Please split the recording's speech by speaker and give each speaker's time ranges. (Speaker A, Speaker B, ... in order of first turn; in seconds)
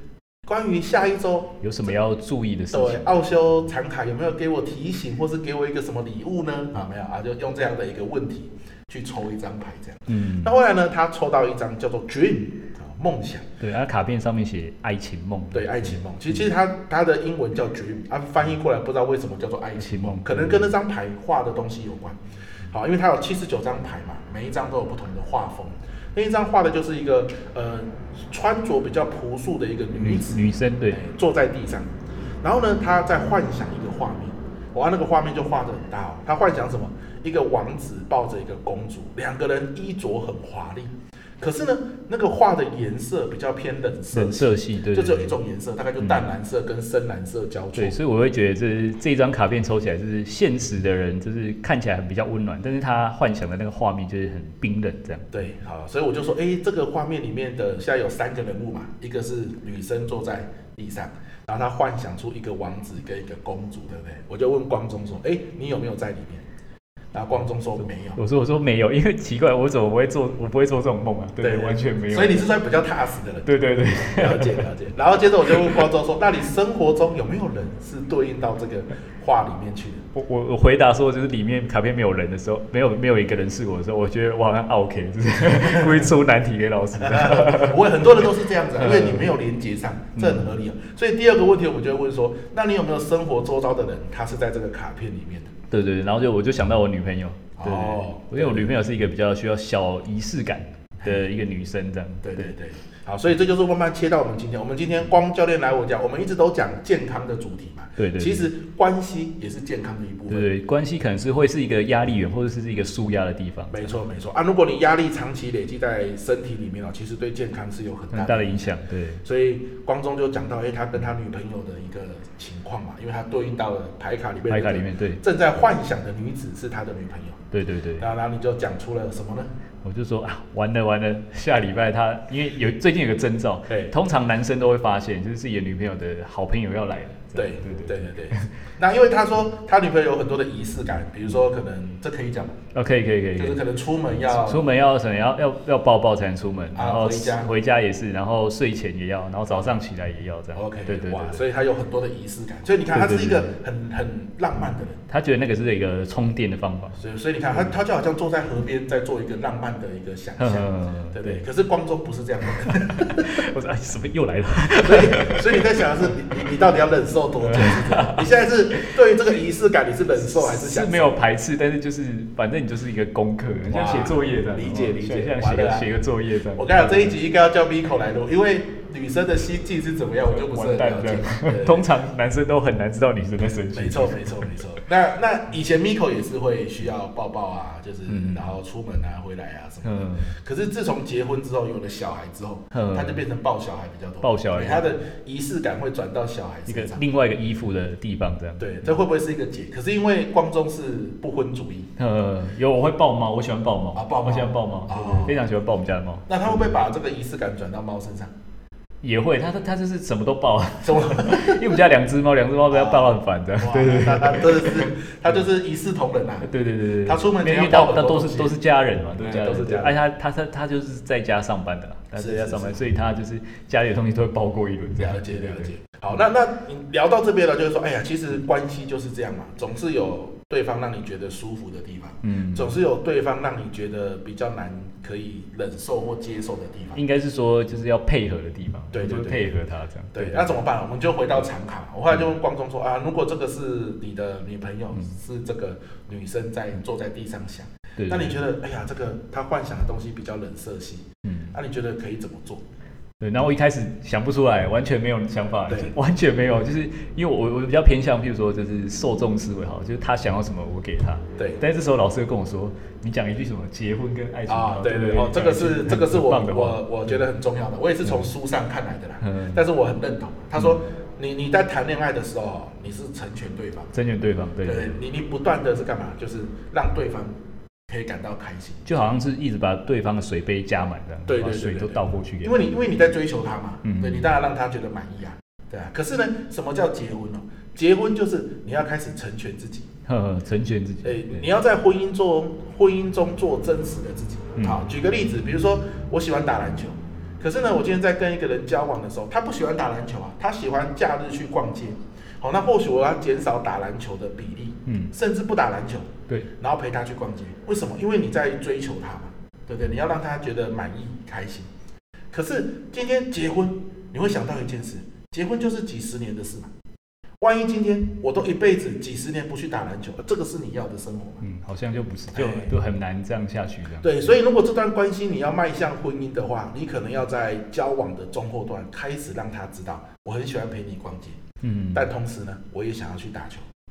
Speaker A: 0.5-1.6, 2.7-13.4, 15.5-31.9, 32.4-48.0, 55.3-66.5, 67.1-68.2, 71.4-80.0, 87.0-95.5, 97.6-98.7, 102.2-110.5, 113.7-127.4, 128.0-129.5, 137.3-142.5, 143.3-144.6, 146.7-147.5, 150.5-155.0, 157.0-163.3, 164.8-171.1, 173.7-175.9, 176.5-181.9, 183.7-197.0, 198.6-201.9, 203.9-205.4, 206.3-208.3, 210.8-211.8, 212.7-216.5, 217.0-218.6, 219.2-219.9, 222.2-222.8, 225.0-237.0, 238.9-239.6, 240.1-252.6, 255.7-255.9, 264.5-273.9, 274.6-277.3, 277.9-278.9, 281.3-289.9, 291.0-311.7, 312.3-316.7, 317.4-321.4, 322.3-322.7, 324.0-331.4, 331.9-333.6
Speaker B: 1.6-3.2, 10.1-10.6, 13.6-16.4, 19.8-20.7, 29.9-31.0, 44.1-45.3, 46.0-46.3, 47.7-55.3, 68.1-72.5, 73.4-74.7, 80.1-89.3, 90.2-90.5, 95.7-102.5, 108.0-108.5, 110.3-113.9, 118.1-119.2, 124.5-125.2, 127.5-128.1, 129.8-138.5, 142.7-143.6, 144.3-151.4, 152.9-153.5, 155.1-157.0, 160.4-161.4, 162.6-165.7, 167.4-168.9, 170.2-177.1, 180.2-184.6, 188.1-188.5, 189.8-190.3, 192.7-193.2, 194.2-194.9, 196.7-199.0, 202.0-206.7, 209.0-214.9, 216.4-225.7, 232.2-232.8, 236.9-240.5, 248.0-248.4, 251.2-251.5, 253.2-267.1, 269.2-269.6, 270.5-270.8, 273.9-274.9, 278.9-282.8, 283.8-284.3, 290.1-291.4, 294.6-294.9, 304.9-305.1, 321.4-324.2, 331.6-332.1